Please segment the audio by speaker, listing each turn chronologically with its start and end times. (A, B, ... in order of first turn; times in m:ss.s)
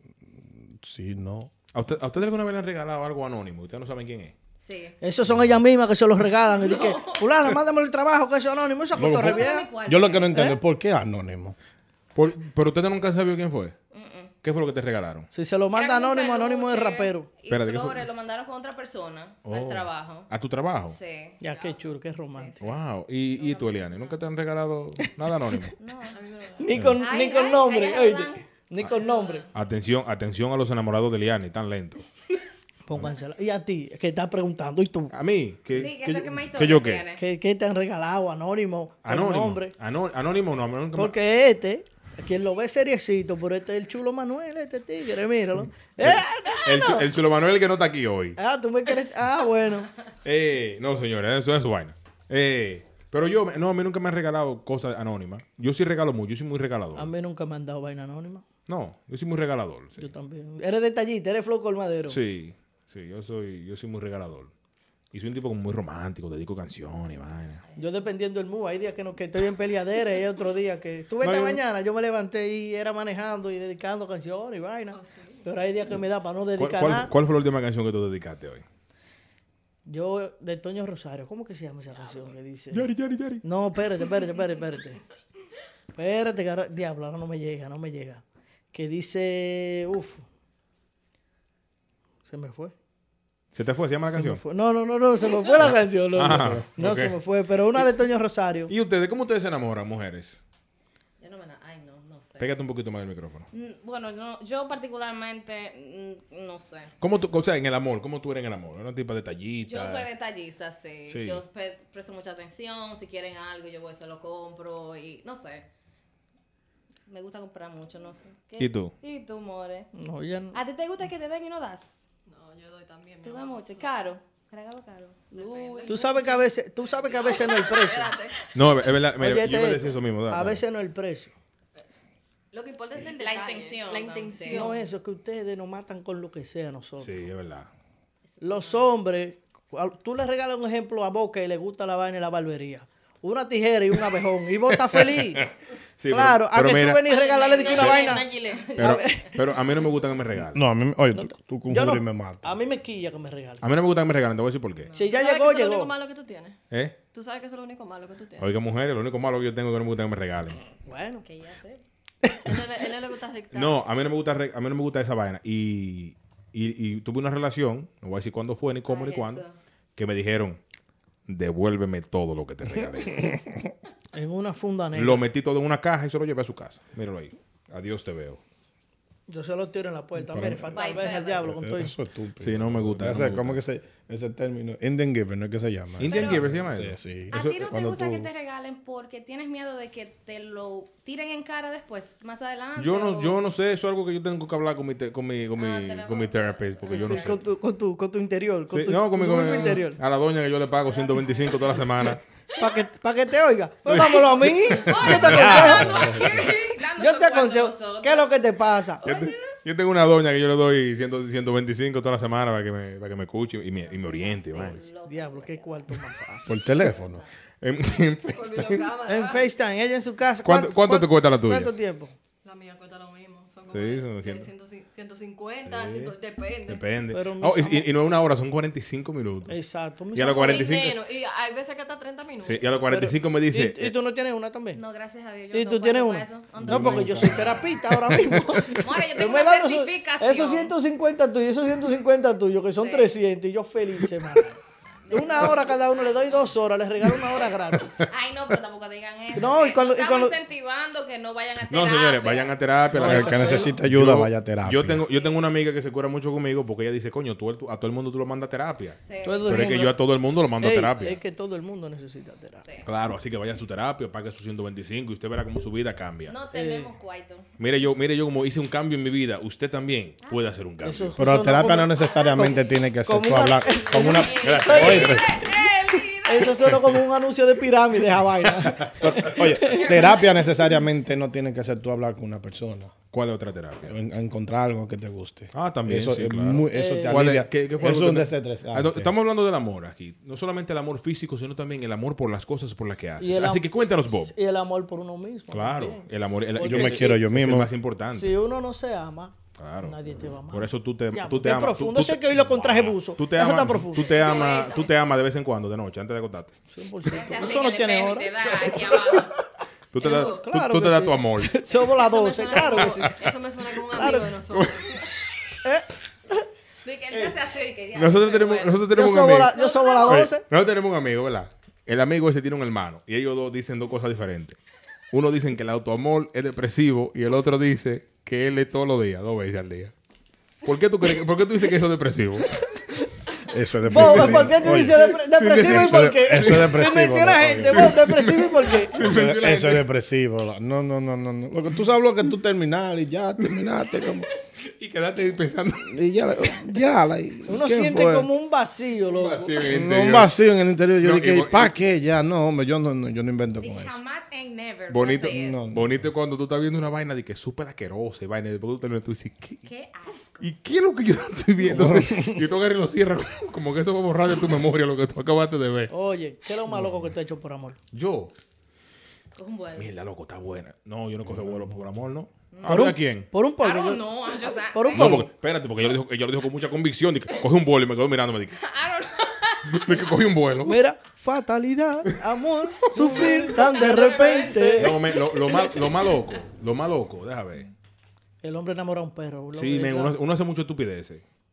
0:00.3-0:01.5 A
0:01.7-0:04.4 B
0:04.6-0:05.0 C
0:05.0-0:09.7 D
0:06.6-0:07.3 C
0:09.0-0:11.6 A
0:09.1-0:10.4 C
0:10.3-0:10.6 D
0:12.2-0:13.8 B
0:13.9-0:14.3 C
0:14.4-0:15.3 B
0:15.3-0:17.3 D
0:15.7-0:20.3 C
0:17.5-0:18.0 B
0:19.4-0:21.0 B
0:20.9-0:21.4 C
0:21.4-0:22.6 D
0:21.4-0:21.8 E
0:22.3-0:22.6 C
0:22.6-0:25.7 B
0:23.4-0:24.2 C
0:25.8-0:26.2 C
0:26.1-0:26.8 E
0:26.6-0:29.5 D
0:27.0-0:28.5 C
0:29.0-0:29.5 E
0:29.5-0:32.1 B
0:32.9-0:35.2 D
0:35.1-0:37.0 B
0:35.7-0:37.2 C
0:37.2-0:39.7 D
0:39.0-0:41.2 B
0:41.0-0:47.1 D
0:46.0-0:48.4 B
0:48.4-0:49.9 D
0:50.2-0:57.1 B
0:57.0-0:58.4 D
0:58.7-1:00.1 B
1:00.0-1:02.2 D
1:02.1-1:04.5 B
1:05.1-1:07.6 B
1:07.6-1:08.1 C
1:07.8-1:17.1 D
1:11.2-1:11.6 B
1:14.9-1:15.5 E
1:16.6-1:18.6 B
1:19.9-1:22.9 D
1:22.7-1:23.4 B
1:23.4-1:25.0 D
1:26.0-1:30.2 D
1:32.2-1:32.7 D
1:33.6-1:34.4 B
1:34.1-1:38.7 D
1:36.1-1:37.2 B
1:36.2-1:36.6 A
1:38.7-1:40.4 B
1:41.2-1:42.5 C
1:42.4-1:43.5 B
1:43.5-1:46.9 C
1:47.0-1:50.1 B
1:49.7-1:55.7 C
1:51.1-1:51.4 B
1:57.1-1:59.9 C
1:58.6-1:59.0 B
2:00.0-2:00.6 D
2:00.5-2:02.0 C
2:02.3-2:03.9 E
2:03.2-2:06.5 C
2:05.3-2:06.2 E
2:05.9-2:08.2 D
2:06.8-2:08.4 E
2:07.0-2:08.5 C
2:08.5-2:10.6 B
2:09.2-2:11.3 D
2:12.5-2:14.8 E
2:13.0-2:14.7 C
2:14.5-2:17.2 D
2:17.0-2:17.7 B
2:18.4-2:18.8 C
2:18.4-2:25.5 D
2:24.7-2:27.1 B
2:26.1-2:29.4 D
2:27.0-2:29.4 C
2:27.5-2:28.9 E
2:27.7-2:28.2 B
2:28.8-2:30.6 B
2:30.4-2:32.6 A
2:31.1-2:33.7 D
2:33.6-2:34.9 B
2:34.8-2:35.1 C
2:35.0-2:35.9 D
2:35.0-2:36.6 E
2:36.7-2:37.0 B
2:37.1-2:38.5 E
2:38.4-2:40.6 B
2:40.9-2:41.2 D
2:41.2-2:41.8 C
2:42.2-2:42.6 D
2:42.4-2:43.8 E
2:43.5-2:49.4 B
2:48.9-2:49.6 C
2:50.0-2:50.6 B
2:51.3-2:53.3 B
2:53.2-2:53.7 A
2:54.1-2:55.2 D
2:55.0-2:58.4 B
2:59.3-3:01.9 D
3:00.3-3:00.7 A
3:00.7-3:01.6 C
3:00.8-3:01.3 E
3:01.4-3:08.3 A
3:02.4-3:03.6 B
3:06.0-3:08.0 B
3:06.1-3:06.4 C
3:07.3-3:13.4 C
3:12.8-3:17.4 B
3:15.6-3:17.4 C
3:16.9-3:20.0 D
3:18.7-3:22.2 B
3:20.8-3:21.9 C
3:22.5-3:22.8 C
3:22.6-3:29.1 D
3:23.9-3:26.5 B
3:24.3-3:28.4 C
3:25.5-3:26.5 A
3:29.0-3:29.6 C
3:29.0-3:34.8 B
3:33.8-3:36.0 C
3:35.1-3:36.7 D
3:36.5-3:37.2 A
3:36.5-3:37.3 C
3:37.6-3:38.9 B
3:38.3-3:39.6 E
3:39.1-3:42.1 D
3:40.4-3:41.7 B
3:42.4-3:46.8 E
3:43.7-3:44.5 B
3:45.6-3:49.6 B
3:47.1-3:47.9 D
3:49.5-3:50.7 D
3:50.1-3:51.0 B
3:50.3-3:52.7 E
3:52.4-3:54.0 B
3:52.9-3:54.8 D
3:54.7-3:57.5 C
3:55.5-4:04.6 D
3:56.6-3:57.8 B
3:56.6-3:57.6 A
3:58.6-4:00.7 C
4:02.7-4:03.2 C
4:05.0-4:06.5 C
4:05.1-4:08.0 D
4:08.1-4:13.7 C
4:09.4-4:10.4 D
4:11.7-4:21.2 B
4:12.9-4:13.8 D
4:13.0-4:15.0 A
4:19.0-4:19.9 C
4:19.2-4:22.6 D
4:22.8-4:26.4 B
4:26.3-4:27.5 C
4:26.5-4:26.9 D
4:27.6-4:31.2 B
4:30.2-4:30.5 C
4:30.8-4:35.5 D
4:31.2-4:35.3 A
4:31.6-4:32.9 C
4:33.7-4:36.7 C
4:34.3-4:35.4 B
4:36.2-4:40.2 D
4:38.5-4:38.9 B
4:39.0-4:42.9 A
4:39.7-4:40.5 C
4:43.1-4:44.0 B
4:43.8-4:49.1 A
4:45.5-4:54.3 B
4:46.7-4:47.3 D
4:53.2-4:57.2 D
4:55.5-4:58.3 B
4:56.6-4:57.7 A
4:58.1-5:04.2 D
4:59.6-5:00.0 B
5:00.5-5:06.6 B
5:04.1-5:04.9 C
5:06.7-5:09.2 D
5:07.1-5:09.4 C
5:09.9-5:11.6 B
5:10.0-5:13.2 D
5:10.0-5:10.4 E
5:11.8-5:15.1 E
5:12.7-5:13.3 B
5:13.9-5:14.3 D
5:14.0-5:15.2 B
5:15.6-5:16.5 D
5:16.8-5:18.8 C
5:18.0-5:24.6 B
5:18.9-5:20.4 D
5:19.5-5:20.3 C
5:25.1-5:29.9 B
5:30.6-5:32.6 B
5:33.5-5:38.0 A
5:33.9-5:36.8 B
5:33.9-5:39.0 D
5:37.7-5:39.9 B
5:39.0-5:44.3 A
5:43.4-5:43.7 B
5:44.6-5:46.0 B
5:45.8-5:48.3 A
5:47.5-5:49.6 D
5:49.1-5:50.3 B
5:49.6-5:54.0 A
5:51.0-5:51.8 B
5:53.6-5:55.6 C
5:54.9-5:59.7 B
5:55.3-5:56.1 A
5:59.6-6:00.5 C
6:00.4-6:05.9 B
6:01.7-6:02.4 A
6:05.9-6:07.8 D
6:06.7-6:07.1 A
6:07.9-6:08.3 B
6:09.4-6:09.9 C
6:09.8-6:13.3 B
6:11.3-6:11.7 A
6:12.5-6:12.9 C
6:12.7-6:15.3 D
6:13.6-6:15.2 C
6:14.9-6:18.6 B
6:18.6-6:20.1 C
6:19.7-6:20.8 B
6:20.6-6:25.0 D
6:22.9-6:23.6 B
6:23.0-6:26.2 C
6:24.8-6:27.7 B
6:28.4-6:30.2 D
6:29.5-6:31.2 B